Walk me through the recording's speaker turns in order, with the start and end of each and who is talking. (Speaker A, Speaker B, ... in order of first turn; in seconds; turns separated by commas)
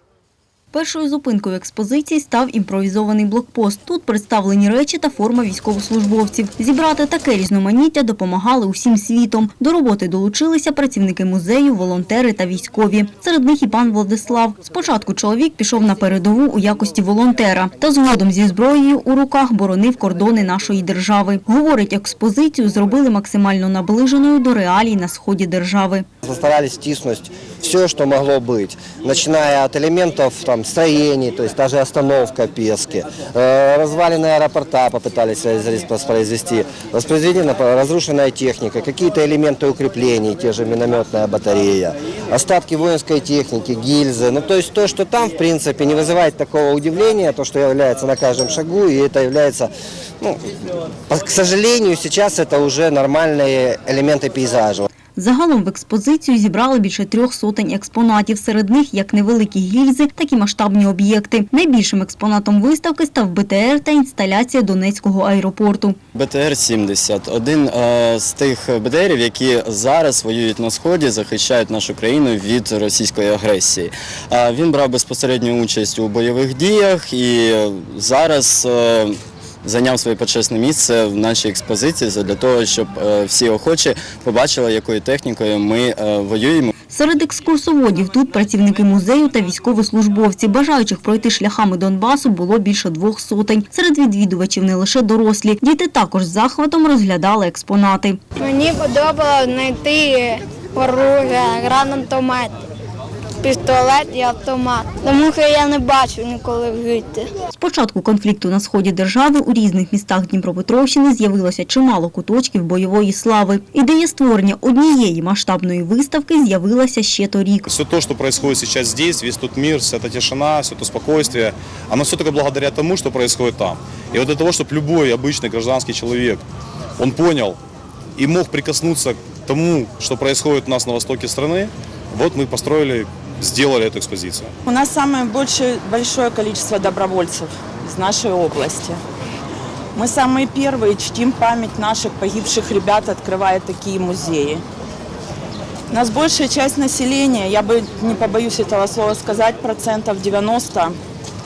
Speaker A: 0.7-26.1, Speaker B: 26.2-50.5, Speaker B: 51.1-54.9, Speaker A: 55.2-66.0, Speaker C: 66.2-86.7, Speaker A: 86.9-98.2, Speaker D: 98.4-102.5, Speaker D: 103.4-107.3, Speaker A: 107.5-117.7, Speaker E: 117.7-126.4, Speaker E: 127.0-127.6, Speaker E: 128.2-134.5, Speaker F: 134.7-139.0, Speaker F: 139.9-144.6, Speaker F: 145.9-151.0